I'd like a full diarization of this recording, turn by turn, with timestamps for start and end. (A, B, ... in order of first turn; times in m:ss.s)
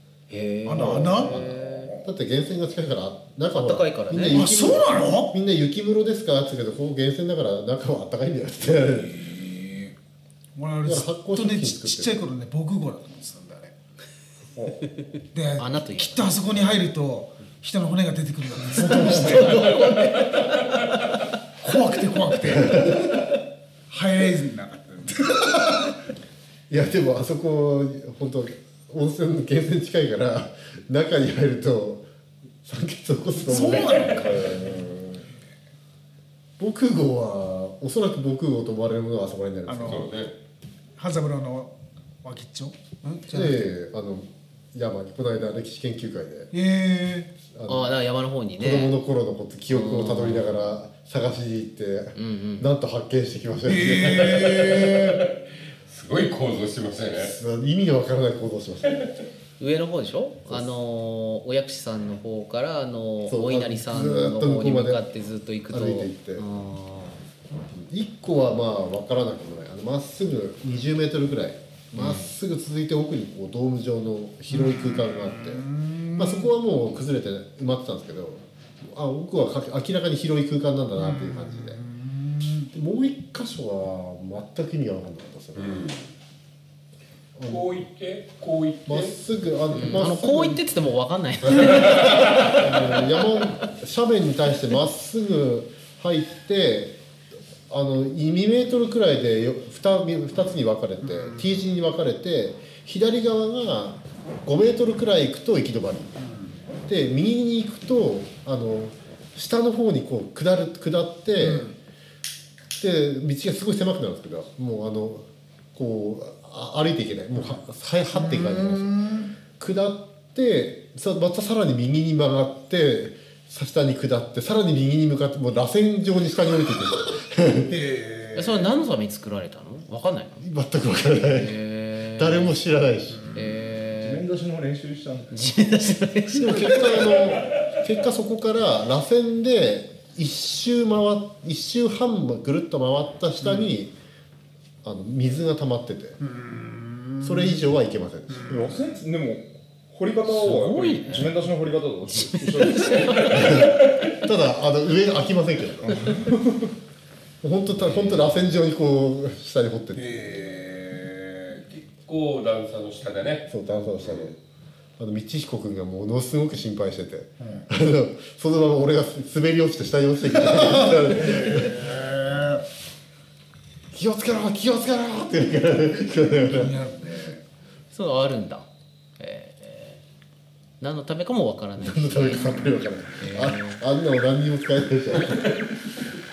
0:00.3-0:01.9 A
0:00.6-0:01.4 B
0:00.8-0:02.1 C
0:01.1-0:09.2 D
0:03.5-0:04.4 A
0:04.3-0:05.3 B
0:09.1-0:09.9 B
0:10.6-0:13.7 B
0:10.8-0:12.1 D
0:14.5-0:14.9 C
0:15.3-0:20.2 B
0:15.6-0:16.7 A
0:19.1-0:20.4 A
0:21.6-0:23.1 B
0:23.9-0:25.8 B
0:26.7-0:32.0 D
0:32.6-0:34.4 D
0:33.4-0:34.7 B
0:34.1-0:35.2 C
0:36.6-0:40.1 D
0:39.7-0:40.1 B
0:39.8-0:40.3 E
0:41.0-0:43.6 B
0:43.3-0:46.5 D
0:46.5-0:47.3 B
0:47.5-0:48.0 D
0:47.7-0:48.9 A
0:48.6-0:54.8 D
0:49.7-0:50.7 A
0:52.1-0:52.7 A
0:53.7-0:55.2 B
0:54.2-0:57.3 E
0:57.1-0:59.1 D
0:59.6-1:07.2 A
1:00.5-1:00.8 D
1:03.3-1:05.0 D
1:05.7-1:06.4 D
1:07.7-1:21.8 D
1:12.0-1:12.3 A
1:14.5-1:16.5 B
1:21.1-1:22.7 B
1:22.7-1:25.8 D
1:25.5-1:26.1 E
1:27.4-1:27.8 D
1:27.4-1:29.1 E
1:28.8-1:30.6 D
1:29.7-1:32.6 A
1:31.8-1:32.5 E
1:32.2-1:37.0 D
1:37.7-1:46.1 D
1:46.8-1:51.7 D
1:51.5-1:51.7 B
1:52.8-2:07.7 D
1:58.2-1:59.3 B
2:07.7-2:08.7 B
2:08.3-2:10.4 A
2:10.4-2:11.6 D
2:11.2-2:12.6 A
2:12.1-2:13.4 D
2:13.3-2:14.2 A
2:14.0-2:15.3 C
2:15.3-2:17.2 A
2:16.3-2:23.9 D
2:24.8-2:26.2 D
2:26.3-2:27.3 B
2:27.2-2:28.6 D
2:28.4-2:33.5 C
2:30.3-2:31.3 A
2:32.1-2:33.4 A
2:33.3-2:36.2 D
2:36.1-2:36.6 C
2:37.4-2:40.2 D
2:37.8-2:38.2 A
2:40.0-2:41.8 B
2:41.8-2:43.5 E
2:43.5-2:44.4 D
2:44.0-2:44.3 E
2:45.0-2:51.8 D
2:50.5-2:52.6 B
2:53.9-2:56.8 D
2:56.5-2:57.4 B
2:57.9-2:58.7 A
2:59.2-3:00.0 A
3:00.8-3:03.8 A
3:01.8-3:05.6 D